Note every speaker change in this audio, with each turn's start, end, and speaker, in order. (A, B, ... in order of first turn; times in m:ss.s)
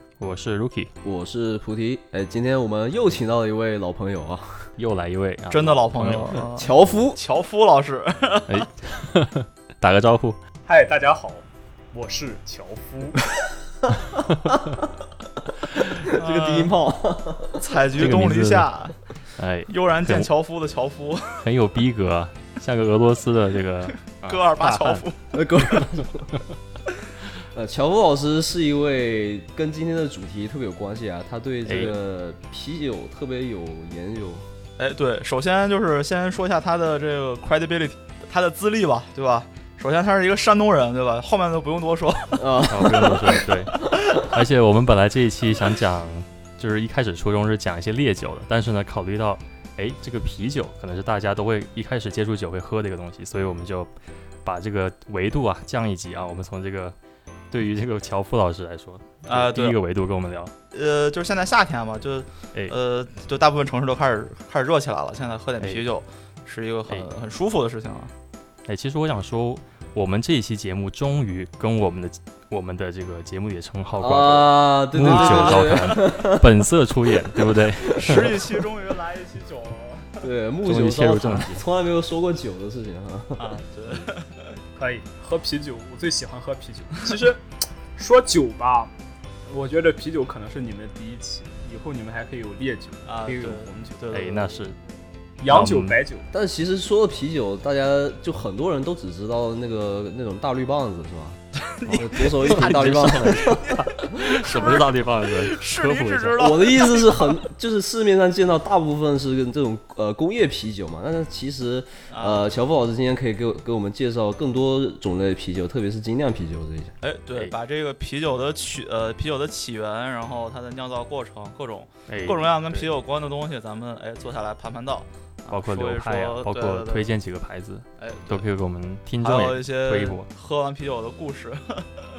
0:00.2-0:00.9 A
0:01.0-0:04.7 B
0:04.8-0:06.5 A
0:05.5-0:08.7 C
0:06.6-0:07.2 B
0:08.5-0:10.4 A
0:10.7-0:13.2 D
0:15.7-0:17.8 B
0:16.0-0:16.8 C
0:17.6-0:19.0 C
0:18.0-0:18.7 A
0:19.4-0:20.3 A
0:19.7-0:21.4 C
0:21.4-0:25.0 A
0:24.2-0:25.2 C
0:25.3-0:26.3 B
0:27.5-0:34.4 B
0:31.7-0:32.0 A
0:34.8-0:42.4 C
0:42.3-0:43.4 B
0:42.7-0:53.9 A
0:54.4-0:57.0 A
0:57.5-1:00.5 A
0:59.3-0:59.8 C
1:00.7-1:08.1 C
1:05.6-1:05.8 A
1:08.7-1:18.5 A
1:14.0-1:16.6 B
1:15.0-1:16.0 C
1:17.9-1:20.2 C
1:20.2-1:23.5 B
1:20.6-1:21.6 A
1:23.4-1:24.5 C
1:24.8-1:27.4 D
1:28.0-1:28.9 D
1:29.5-1:34.0 D
1:33.1-1:34.5 C
1:34.1-1:34.8 A
1:35.4-1:36.2 D
1:35.5-1:36.0 A
1:36.3-1:43.7 B
1:41.6-1:44.9 C
1:42.2-1:46.8 A
1:45.4-1:47.3 C
1:46.4-1:56.9 B
1:52.1-1:52.5 C
1:57.0-2:07.1 C
2:02.1-2:02.9 A
2:05.5-2:10.3 A
2:08.0-2:08.4 C
2:09.2-2:12.1 C